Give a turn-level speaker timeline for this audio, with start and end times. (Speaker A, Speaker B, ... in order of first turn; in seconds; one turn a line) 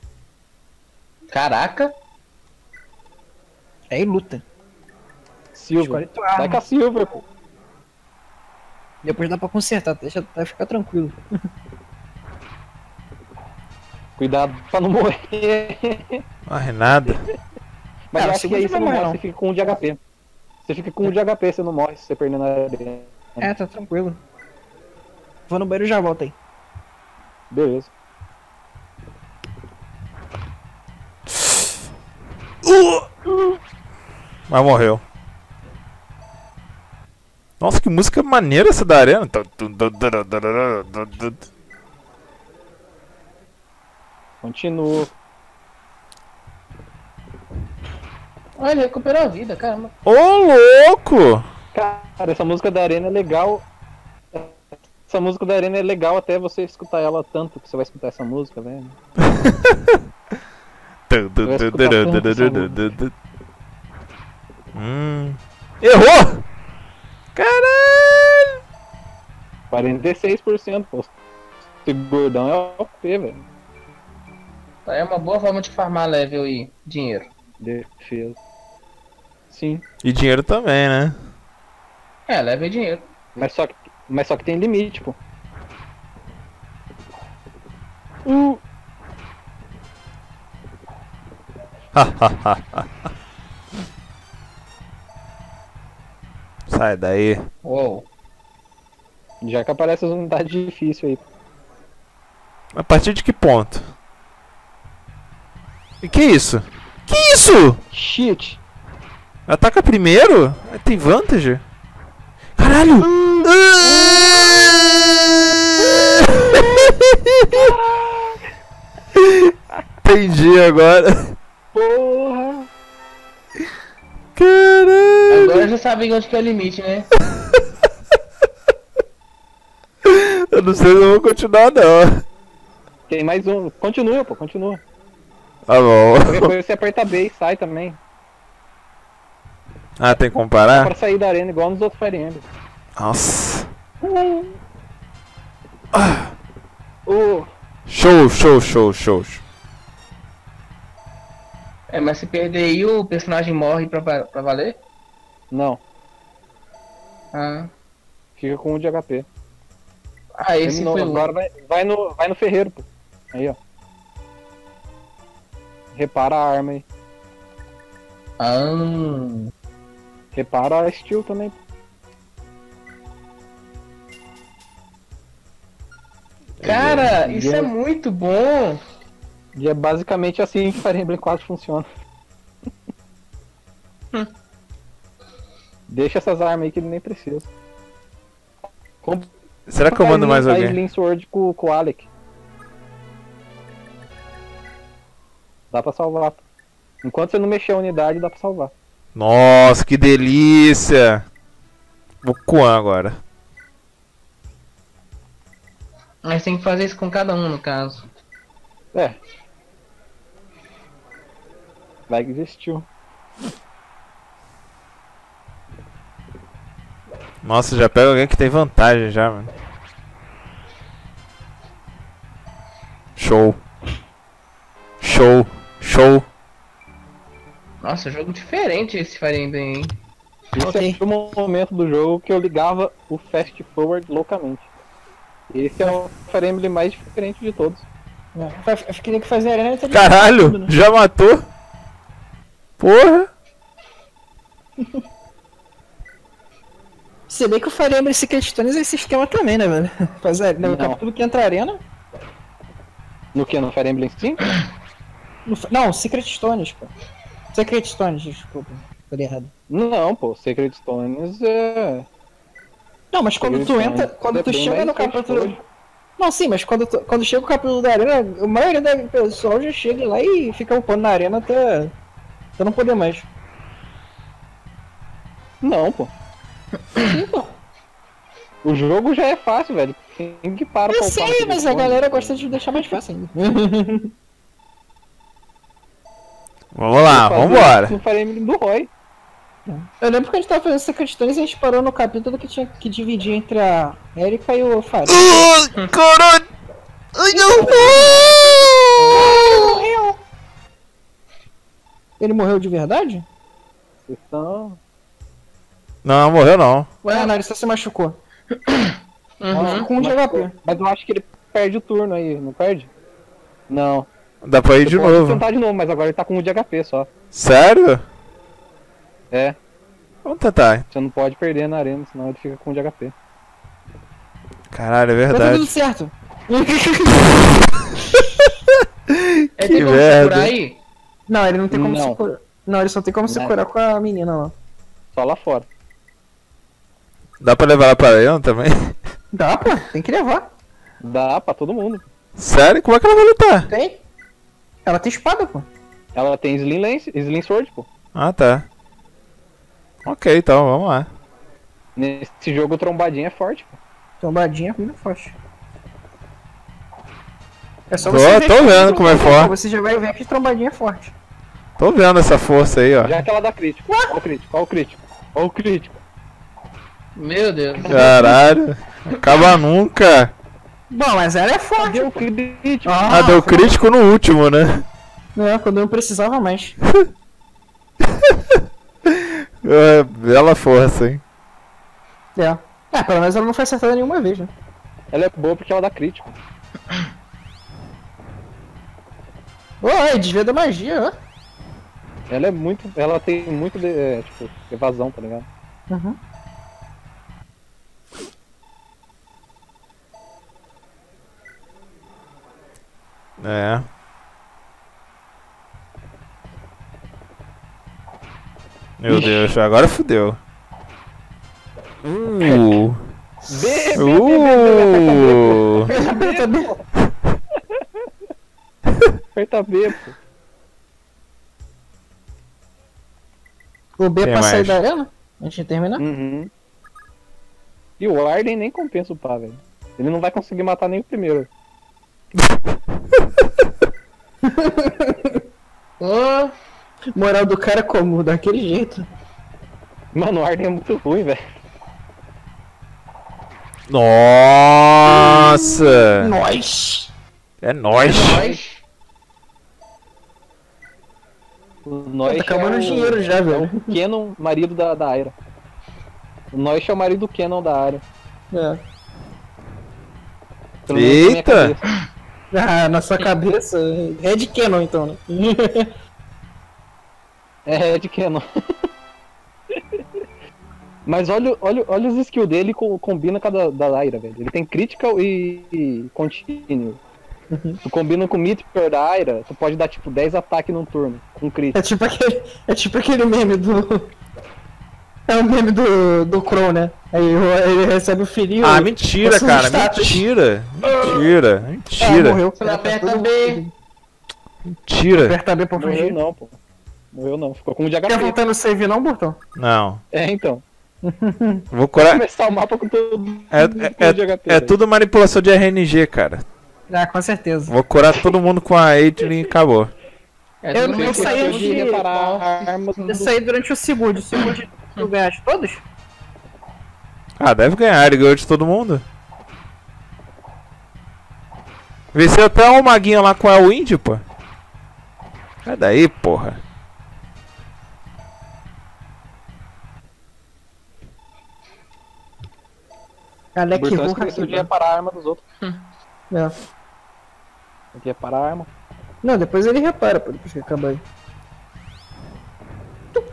Speaker A: 1.3-1.9
Speaker B: 3.9-4.4
Speaker C: 5.5-7.2
Speaker B: 5.8-6.6
Speaker B: 9.0-11.2
Speaker C: 14.2-16.2
Speaker D: 16.5-17.2
Speaker C: 18.1-20.0
Speaker B: 18.1-19.8
Speaker C: 20.6-23.5
Speaker B: 23.4-24.2
Speaker B: 25.5-26.3
Speaker C: 27.5-27.9
Speaker D: 32.6-33.1
Speaker D: 34.5-35.0
Speaker D: 37.6-41.5
Speaker C: 44.4-45.1
Speaker A: 48.6-49.9
Speaker D: 50.0-51.5
Speaker C: 51.7-53.6
Speaker C: 54.3-59.0
Speaker D: 59.3-60.0
Speaker D: 61.1-63.1
Speaker C: 61.4-62.8
Speaker D: 64.7-66.4
Speaker D: 67.3-68.6
Speaker C: 69.7-71.1
Speaker C: 71.8-73.4
Speaker A: 74.8-77.3
Speaker C: 77.6-78.4
Speaker C: 79.5-79.8
Speaker D: 80.0-81.2
Speaker A: 82.3-83.1
Speaker C: 83.3-85.2
Speaker C: 88.2-88.6
Speaker D: 91.9-92.9
Speaker D: 96.7-97.4
Speaker A: 97.6-98.0
Speaker C: 99.4-101.2
Speaker D: 102.7-103.9
Speaker D: 106.0-107.8
Speaker C: 107.9-108.6
Speaker D: 109.5-111.6
Speaker D: 112.6-117.5
Speaker C: 113.0-114.8
Speaker C: 116.3-116.8
Speaker C: 117.5-118.4
Speaker D: 119.2-119.5
Speaker D: 120.0-121.3
Speaker C: 121.7-122.7
Speaker D: 124.3-125.7
Speaker A: 125.3-127.1
Speaker D: 130.0-132.2
Speaker C: 133.1-134.8
Speaker D: 135.7-136.5
Speaker C: 136.2-138.0
Speaker D: 140.0-140.9
Speaker C: 140.7-142.4
Speaker D: 142.9-143.7
Speaker C: 144.0-144.5
Speaker D: 145.9-146.3
Speaker C: 147.1-147.5
Speaker D: 147.9-149.4
Speaker A: 151.9-154.8
Speaker C: 155.5-155.8
Speaker A: 157.3-157.7
Speaker C: 158.4-159.3
Speaker A: 160.4-161.3
Speaker C: 160.6-163.6
Speaker C: 165.9-166.8
Speaker A: 168.4-169.5
Speaker C: 170.3-171.6
Speaker D: 176.6-177.1
Speaker A: 176.6-178.8
Speaker C: 177.2-177.7
Speaker C: 179.5-181.8
Speaker C: 185.9-187.5
Speaker C: 189.0-189.3
Speaker D: 189.7-190.8
Speaker C: 189.9-192.1
Speaker C: 195.7-196.4
Speaker C: 197.0-198.7
Speaker D: 199.1-201.2
Speaker D: 202.2-203.2
Speaker A: 206.2-208.1
Speaker C: 208.9-209.2
Speaker C: 212.1-212.9
Speaker D: 217.4-219.5
Speaker D: 223.2-223.6
Speaker D: 225.0-226.2
Speaker A: 227.8-229.9
Speaker C: 230.5-234.7
Speaker B: 230.6-231.0
Speaker C: 235.5-237.8
Speaker B: 238.3-240.7
Speaker D: 239.9-241.5
Speaker D: 242.8-243.3
Speaker B: 247.3-251.8
Speaker C: 250.6-251.0
Speaker C: 253.3-254.5
Speaker B: 255.4-256.9
Speaker B: 257.5-259.5
Speaker C: 259.7-262.1
Speaker B: 263.1-265.6
Speaker C: 263.4-265.6
Speaker B: 266.2-271.9
Speaker B: 272.6-273.3
Speaker C: 275.6-276.1
Speaker B: 276.9-277.5
Speaker C: 278.6-282.5
Speaker B: 280.9-284.1
Speaker D: 286.7-287.9
Speaker C: 287.1-288.9
Speaker B: 289.7-295.5
Speaker D: 295.1-296.4
Speaker D: 297.1-299.2
Speaker A: 297.5-299.8
Speaker C: 297.6-298.2
Speaker B: 299.1-300.2
Speaker B: 302.2-303.2
Speaker C: 304.1-304.8
Speaker D: 306.0-306.9
Speaker B: 307.0-308.2
Speaker A: 307.1-307.3
Speaker A: 308.6-309.9
Speaker C: 309.5-312.9
Speaker B: 309.5-310.5
Speaker C: 313.7-314.1
Speaker D: 314.4-315.4
Speaker C: 314.8-317.1
Speaker D: 317.3-318.0
Speaker C: 319.3-319.6
Speaker D: 320.2-320.8
Speaker C: 320.9-323.1
Speaker D: 324.7-325.7
Speaker B: 325.3-327.4
Speaker D: 328.7-330.5
Speaker A: 329.6-330.8
Speaker B: 331.3-334.5
Speaker C: 331.7-332.2
Speaker C: 333.3-333.5
Speaker C: 335.1-335.7
Speaker D: 337.4-339.0
Speaker B: 339.3-340.5
Speaker C: 341.0-342.1
Speaker D: 342.4-343.7
Speaker B: 343.7-344.0
Speaker B: 344.8-345.7
Speaker C: 346.1-347.9
Speaker D: 348.1-348.6
Speaker D: 350.0-351.1
Speaker C: 351.9-353.8
Speaker B: 354.2-355.3
Speaker B: 357.9-361.1
Speaker D: 358.1-359.5
Speaker D: 361.8-363.2
Speaker C: 363.0-366.0
Speaker B: 363.9-364.1
Speaker A: 367.1-368.0
Speaker B: 367.8-368.4
Speaker D: 367.9-370.3
Speaker B: 370.9-372.3
Speaker C: 371.8-373.1
Speaker B: 372.8-373.7
Speaker D: 373.1-374.8
Speaker B: 375.3-376.8
Speaker D: 378.1-381.2
Speaker B: 382.4-384.5
Speaker C: 385.1-386.4
Speaker B: 389.8-391.1
Speaker C: 392.3-395.5
Speaker B: 395.9-396.2
Speaker D: 403.4-403.9
Speaker D: 409.0-410.4
Speaker C: 409.1-409.5
Speaker D: 412.0-413.0
Speaker C: 412.4-412.8
Speaker C: 413.4-416.8
Speaker D: 414.0-415.9
Speaker B: 415.9-416.7
Speaker C: 417.6-418.0
Speaker C: 419.3-420.2
Speaker B: 424.0-426.0
Speaker D: 424.2-424.8
Speaker C: 426.0-426.5
Speaker C: 428.0-431.5
Speaker B: 434.4-435.4
Speaker A: 436.0-436.5
Speaker B: 437.1-439.0
Speaker C: 440.1-441.4
Speaker D: 443.9-446.3
Speaker B: 446.2-447.1
Speaker D: 447.6-448.5
Speaker A: 447.9-448.8
Speaker C: 451.8-455.3
Speaker B: 452.3-454.0
Speaker C: 456.5-458.0
Speaker B: 458.5-458.8
Speaker C: 460.9-461.9
Speaker D: 460.9-461.7
Speaker B: 462.5-465.9
Speaker C: 467.7-468.4
Speaker C: 469.7-470.0
Speaker C: 471.1-477.0
Speaker B: 477.5-477.8
Speaker C: 477.8-481.8
Speaker B: 481.7-484.1
Speaker B: 485.3-490.2
Speaker D: 488.6-492.4
Speaker B: 492.0-493.7
Speaker A: 492.6-493.6
Speaker D: 494.9-495.4
Speaker B: 495.1-496.2
Speaker C: 495.8-496.6
Speaker C: 497.1-498.4
Speaker B: 498.1-499.4
Speaker D: 499.6-500.0
Speaker C: 500.1-500.6
Speaker B: 501.0-501.7
Speaker D: 501.7-502.2
Speaker C: 501.9-504.7
Speaker D: 503.5-506.4
Speaker B: 506.9-507.7
Speaker D: 507.7-509.9
Speaker A: 510.6-513.1
Speaker B: 510.7-512.0
Speaker C: 510.9-513.3
Speaker B: 513.1-515.8
Speaker D: 517.4-519.0
Speaker D: 522.1-524.2
Speaker D: 525.6-526.6
Speaker B: 533.5-534.7
Speaker C: 533.7-535.4
Speaker C: 537.9-538.7
Speaker B: 539.2-541.0